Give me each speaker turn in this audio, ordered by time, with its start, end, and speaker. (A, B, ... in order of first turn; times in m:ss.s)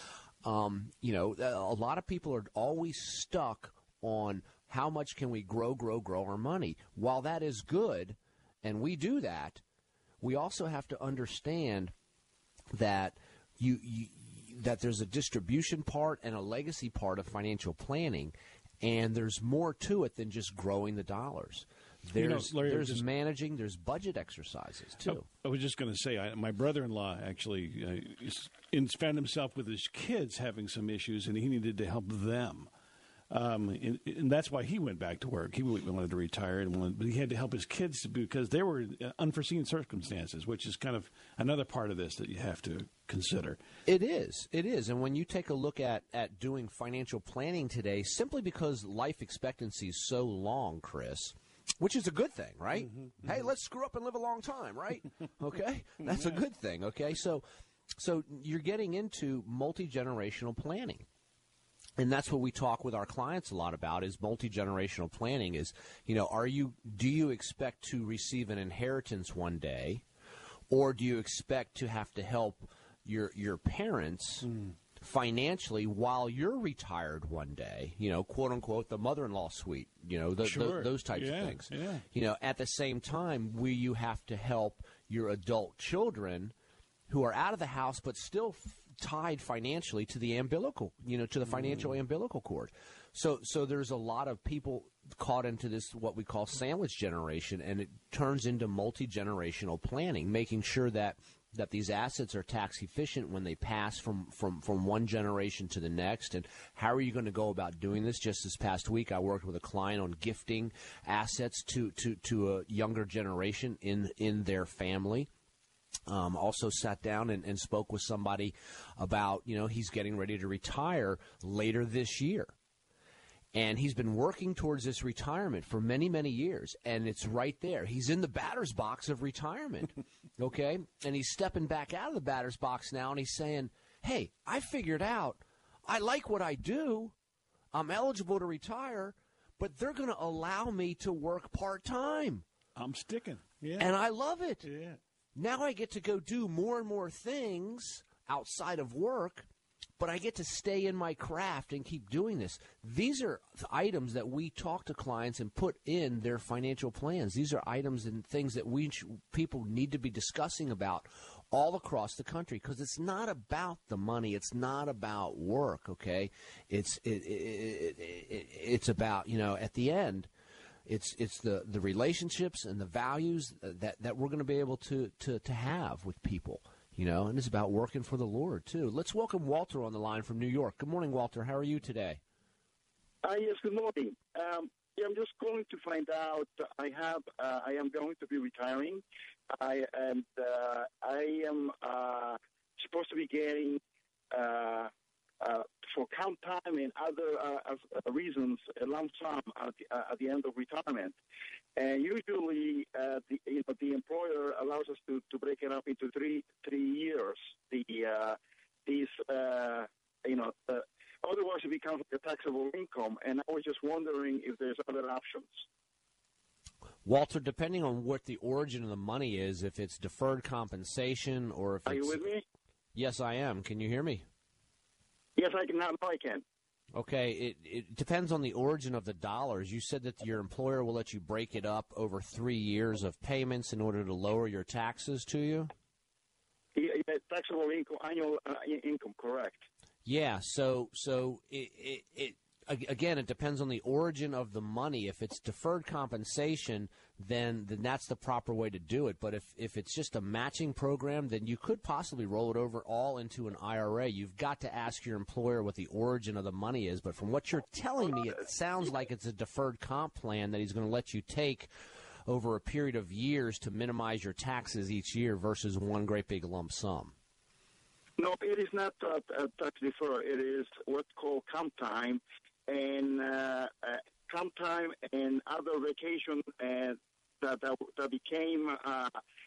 0:00.4-0:09.6 A
0:10.2-0:11.9 A
0:12.7-0:25.3 A
0:22.2-0:23.0 B
0:25.0-0:32.7 B
0:33.3-0:43.6 B
0:43.9-0:57.4 A
0:52.9-0:53.4 B
0:56.1-0:56.4 B
0:58.0-1:01.0 A
1:02.0-1:10.0 A
1:10.7-1:14.5 A
1:14.4-1:14.8 B
1:15.0-1:26.5 A
1:20.4-1:22.0 B
1:27.1-1:55.3 A
1:31.5-1:31.8 B
1:56.1-2:02.5 A
2:03.5-2:17.1 A
2:17.7-2:22.4 A
2:22.8-2:23.9 B
2:23.8-2:24.7 A
2:24.6-2:25.0 B
2:25.4-2:29.5 A
2:30.0-2:50.3 A
2:50.9-3:02.2 A
3:03.2-3:21.2 C
3:21.8-3:35.6 C
3:37.0-3:42.2 A
3:41.9-3:42.4 C
3:43.0-3:44.2 A
3:45.4-3:46.4 C
3:46.9-3:55.7 A
3:56.8-3:59.6 C
4:00.0-4:21.7 A
4:22.3-4:27.1 A
4:28.2-4:39.2 C